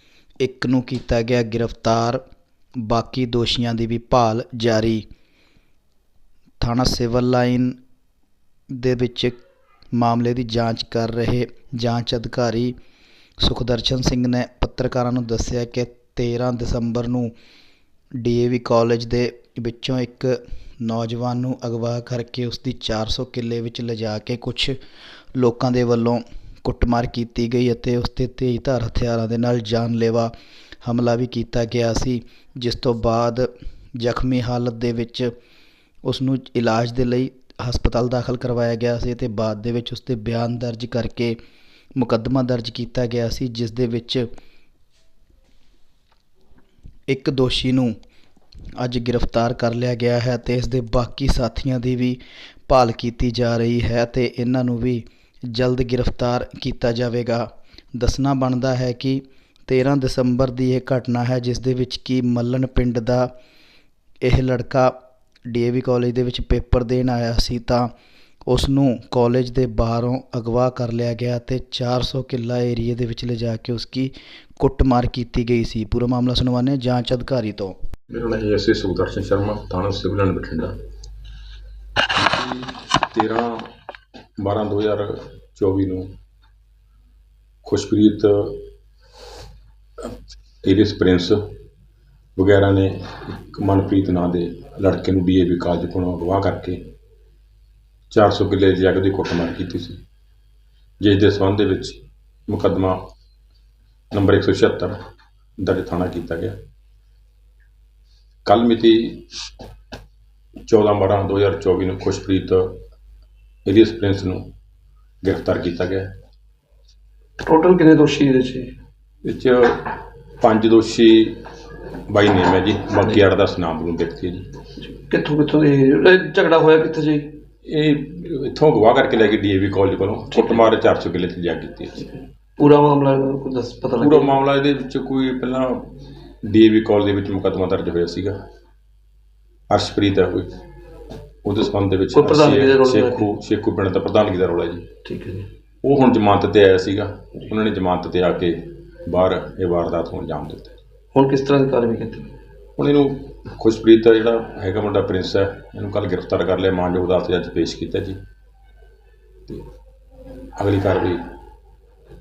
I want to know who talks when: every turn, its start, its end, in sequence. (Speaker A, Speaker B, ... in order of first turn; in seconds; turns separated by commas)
Speaker A: 0.4-2.2, Speaker A: 2.8-5.0, Speaker A: 6.6-7.8, Speaker A: 8.7-9.4, Speaker A: 9.9-12.7, Speaker A: 13.4-17.3, Speaker A: 18.2-24.8, Speaker A: 25.3-30.3, Speaker A: 30.8-35.3, Speaker A: 36.0-41.4, Speaker A: 42.0-44.3, Speaker A: 47.1-47.9, Speaker A: 48.8-63.3, Speaker A: 64.2-64.9, Speaker A: 65.5-67.9, Speaker A: 68.5-77.8, Speaker B: 78.1-80.7, Speaker B: 82.1-83.7, Speaker B: 84.4-86.1, Speaker B: 87.6-88.6, Speaker B: 90.0-91.5, Speaker B: 92.3-96.9, Speaker B: 98.1-100.0, Speaker B: 101.0-103.1, Speaker B: 104.1-105.0, Speaker B: 105.6-106.6, Speaker B: 108.4-109.4, Speaker B: 110.7-112.8, Speaker B: 113.6-114.5, Speaker B: 115.2-116.1, Speaker C: 117.4-118.7, Speaker B: 119.2-121.5, Speaker B: 122.1-124.6, Speaker C: 124.8-127.3, Speaker B: 127.6-132.1, Speaker C: 130.3-130.6, Speaker C: 132.6-134.4, Speaker B: 134.0-138.4, Speaker B: 139.7-140.6, Speaker B: 141.4-144.9, Speaker C: 142.1-143.2, Speaker C: 145.0-145.5, Speaker B: 145.8-150.8, Speaker C: 151.1-152.3, Speaker B: 152.8-158.2, Speaker B: 160.6-161.3